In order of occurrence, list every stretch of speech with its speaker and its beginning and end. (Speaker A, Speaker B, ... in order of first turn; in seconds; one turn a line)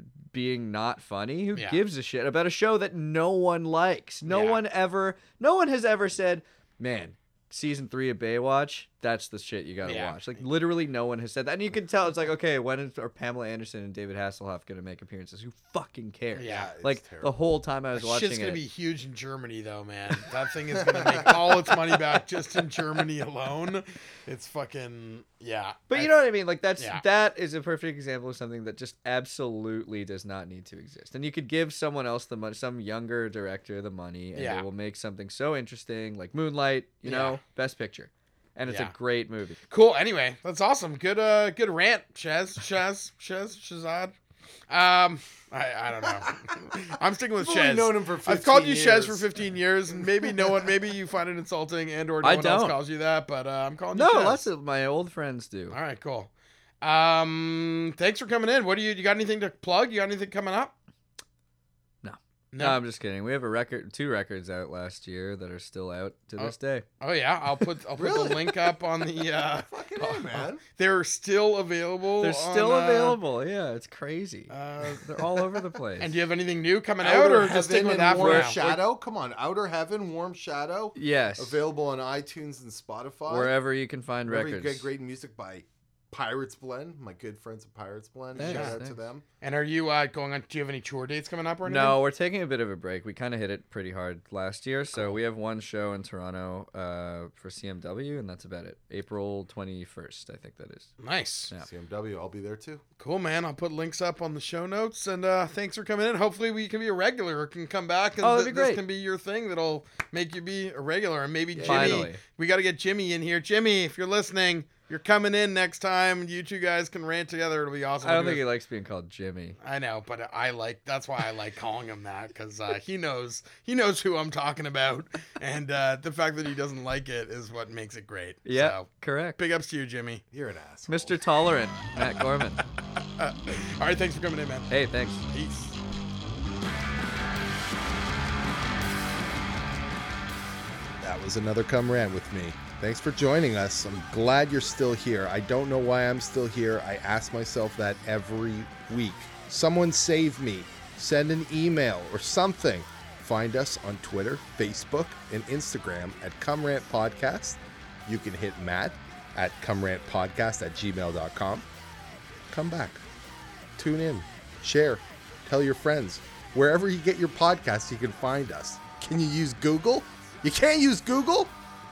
Speaker A: 0.3-18.6
Speaker B: 1.5-1.8
Speaker B: 4.3-4.6
Speaker B: 9.8-10.4
Speaker B: 16.4-16.7
Speaker C: 16.4-17.3
Speaker B: 18.0-26.1
Speaker C: 20.9-21.5
Speaker A: 25.9-39.6
Speaker B: 34.3-34.6
Speaker B: 37.0-37.4
Speaker B: 38.7-38.9
Speaker B: 39.7-44.1
Speaker B: 44.7-54.5
Speaker C: 47.4-49.3
Speaker C: 50.2-50.5
Speaker A: 52.2-52.8
Speaker A: 53.9-55.8
Speaker B: 55.7-56.3
Speaker B: 56.8-60.7
Speaker A: 62.0-66.8
Speaker B: 62.5-62.8
Speaker B: 66.4-73.2
Speaker A: 68.0-68.4
Speaker C: 68.0-68.4
Speaker C: 69.4-70.6
Speaker A: 72.2-76.2
Speaker B: 74.5-75.2
Speaker B: 76.0-78.6
Speaker C: 77.0-83.5
Speaker A: 78.1-78.8
Speaker A: 81.0-81.6
Speaker A: 83.3-84.9
Speaker C: 84.3-89.2
Speaker A: 88.4-89.0
Speaker B: 88.4-88.8
Speaker B: 89.4-92.0
Speaker A: 91.6-100.9
Speaker B: 101.0-101.5
Speaker C: 101.6-102.8
Speaker B: 103.0-118.4
Speaker A: 108.2-108.8
Speaker A: 111.5-112.2
Speaker A: 118.0-119.6
Speaker B: 119.6-130.2
Speaker A: 128.4-129.4
Speaker C: 130.3-131.2
Speaker A: 130.9-132.6
Speaker B: 133.2-134.7
Speaker A: 134.7-135.2
Speaker B: 135.3-135.8
Speaker C: 141.0-161.7
Speaker C: 162.5-163.0
Speaker C: 163.8-171.5